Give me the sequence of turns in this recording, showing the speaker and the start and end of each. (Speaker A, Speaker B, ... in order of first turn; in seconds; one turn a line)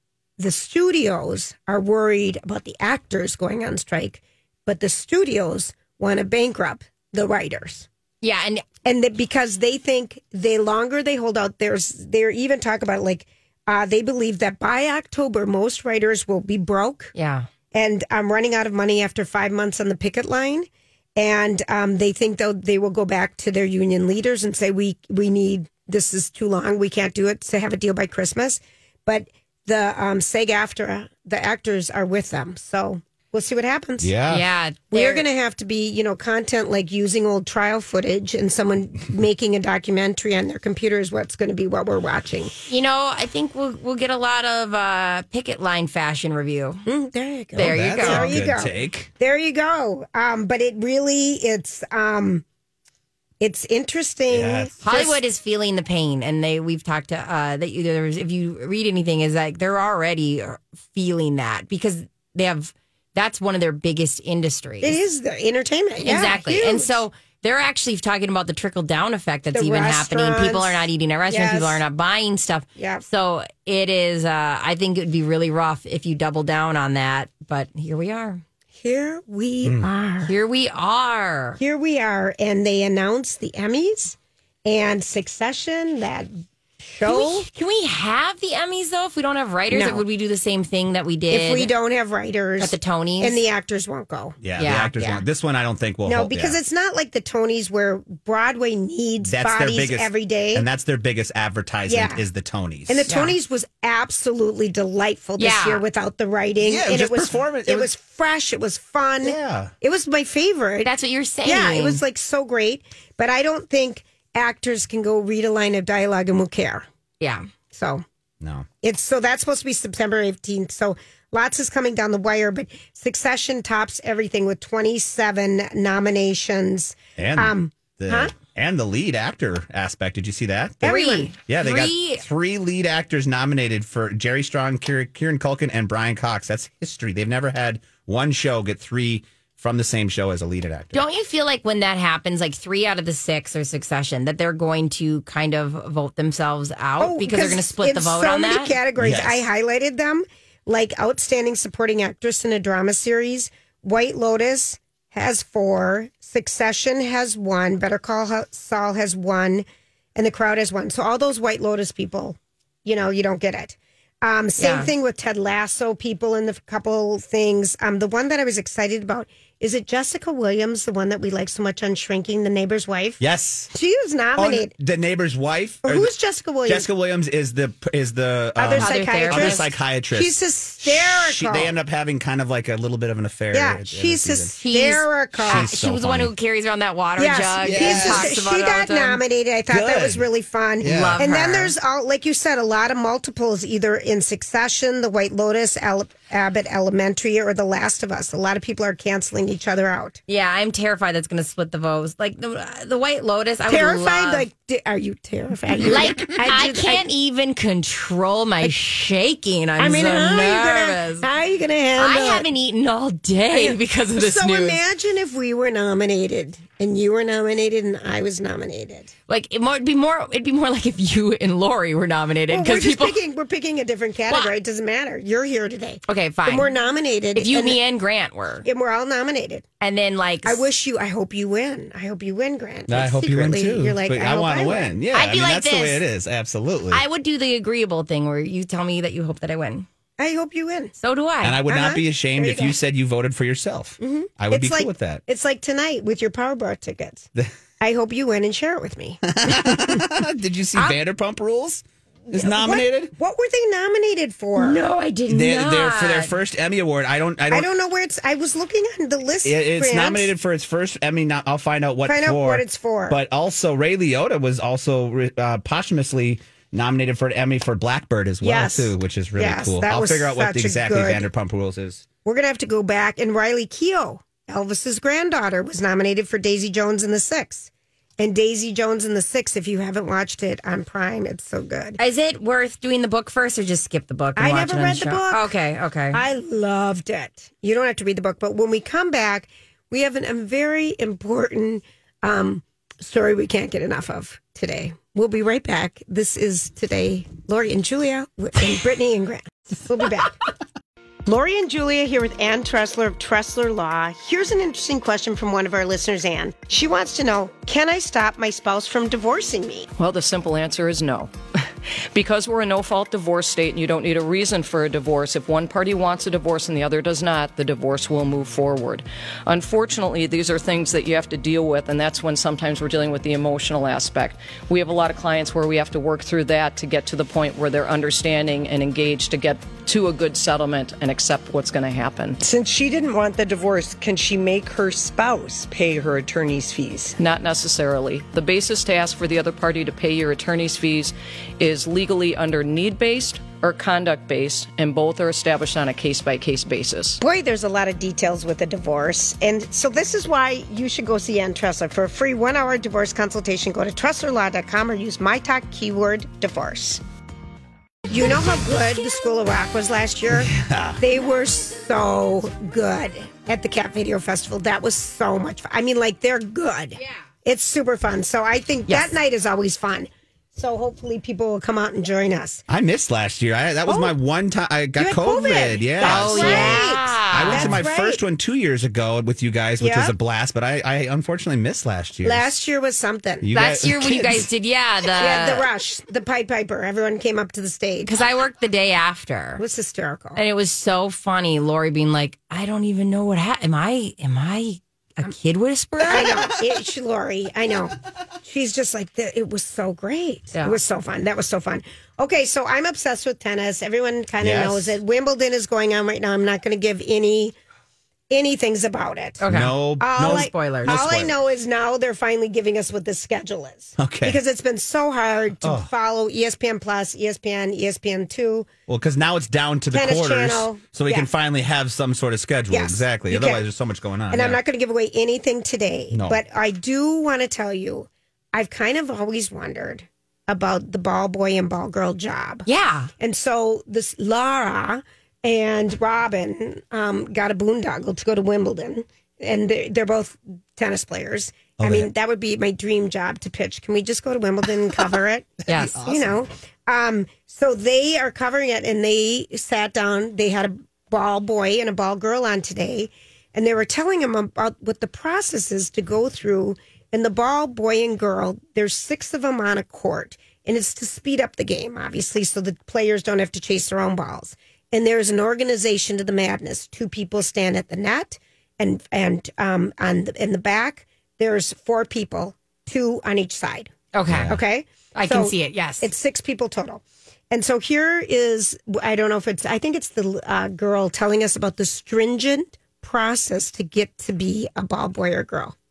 Speaker A: 0.4-7.9
Speaker B: 8.2-8.7
Speaker A: 8.8-17.1
Speaker B: 17.1-17.5
Speaker A: 17.7-34.1
Speaker C: 34.0-34.5
Speaker B: 34.3-35.2
Speaker A: 34.9-42.5
Speaker B: 42.7-46.9
Speaker A: 46.9-52.4
Speaker B: 47.6-48.3
Speaker C: 47.6-49.1
Speaker A: 53.4-55.2
Speaker C: 54.3-55.1
Speaker B: 54.9-65.0
Speaker A: 64.8-67.0
Speaker B: 66.0-78.4
Speaker A: 69.5-71.8
Speaker A: 72.8-73.0
Speaker A: 78.8-80.3
Speaker B: 80.2-81.6
Speaker A: 81.6-87.5
Speaker B: 87.0-91.7
Speaker A: 89.7-90.0
Speaker A: 91.3-94.4
Speaker B: 92.6-93.4
Speaker C: 94.4-96.6
Speaker B: 94.6-94.9
Speaker A: 95.0-95.2
Speaker A: 96.1-100.7
Speaker C: 99.2-103.1
Speaker A: 101.9-102.2
Speaker A: 102.9-110.9
Speaker B: 103.1-103.3
Speaker B: 105.4-105.8
Speaker C: 106.6-107.9
Speaker C: 109.2-109.7
Speaker B: 110.8-112.0
Speaker A: 111.4-116.9
Speaker B: 117.2-117.5
Speaker A: 117.7-118.0
Speaker C: 118.4-118.7
Speaker A: 118.8-128.3
Speaker C: 127.2-130.9
Speaker A: 130.8-131.3
Speaker B: 130.8-132.2
Speaker C: 131.5-141.0
Speaker B: 140.9-148.8
Speaker A: 147.0-159.7
Speaker C: 149.0-149.5
Speaker A: 160.2-173.2
Speaker B: 164.6-164.9
Speaker C: 173.2-173.7
Speaker A: 173.7-174.7
Speaker C: 174.3-176.1
Speaker A: 175.8-176.9
Speaker C: 176.7-184.5
Speaker A: 178.6-181.7
Speaker B: 178.8-179.7
Speaker A: 183.5-185.7
Speaker B: 184.6-189.2
Speaker C: 185.4-186.3
Speaker A: 187.2-200.2
Speaker C: 187.6-188.3
Speaker C: 189.7-190.3
Speaker C: 190.8-191.2
Speaker B: 190.8-191.7
Speaker B: 200.3-204.5
Speaker A: 203.7-207.1
Speaker B: 205.9-211.3
Speaker A: 209.8-212.5
Speaker B: 212.0-214.8
Speaker A: 213.5-219.1
Speaker B: 219.3-223.2
Speaker A: 222.5-227.8
Speaker B: 226.1-226.7
Speaker B: 227.3-228.7
Speaker A: 228.7-229.7
Speaker B: 229.8-230.6
Speaker A: 230.4-234.9
Speaker C: 232.9-237.0
Speaker B: 235.1-236.0
Speaker B: 236.9-239.9
Speaker A: 240.2-240.9
Speaker B: 241.0-241.6
Speaker C: 241.4-245.2
Speaker A: 241.7-242.8
Speaker A: 244.0-247.3
Speaker A: 247.8-250.0
Speaker C: 249.3-253.1
Speaker A: 252.3-254.8
Speaker B: 254.6-256.3
Speaker C: 255.3-257.7
Speaker A: 257.5-260.3
Speaker C: 259.4-272.1
Speaker A: 262.1-263.2
Speaker A: 268.4-271.2
Speaker A: 272.2-282.0
Speaker B: 282.0-286.2
Speaker A: 284.4-285.5
Speaker A: 286.1-300.4
Speaker A: 301.3-309.9
Speaker D: 310.0-311.3
Speaker D: 312.1-332.4
Speaker E: 332.4-337.1
Speaker D: 337.2-347.2
Speaker A: 347.2-357.0
Speaker A: 358.1-372.6
Speaker C: 360.3-361.0
Speaker C: 372.7-382.5
Speaker A: 373.9-374.1
Speaker A: 375.0-378.2
Speaker B: 376.0-377.8
Speaker A: 379.8-380.1
Speaker A: 382.2-383.5
Speaker C: 383.4-384.5
Speaker B: 383.5-385.7
Speaker A: 385.2-388.1
Speaker B: 388.1-389.6
Speaker A: 389.6-390.4
Speaker B: 390.4-396.4
Speaker A: 396.0-407.6
Speaker C: 404.4-405.0
Speaker A: 408.3-409.4
Speaker B: 409.4-411.0
Speaker C: 409.5-411.3
Speaker A: 410.0-418.7
Speaker C: 414.0-414.4
Speaker C: 415.6-415.9
Speaker C: 418.9-424.6
Speaker A: 419.9-421.3
Speaker A: 422.7-423.6
Speaker A: 424.3-432.7
Speaker C: 426.1-426.4
Speaker B: 432.6-433.1
Speaker A: 433.2-473.9
Speaker C: 441.8-442.1
Speaker B: 445.7-446.0
Speaker C: 445.8-446.4
Speaker B: 474.1-474.6
Speaker C: 474.3-474.6
Speaker A: 474.5-485.7
Speaker B: 475.1-476.1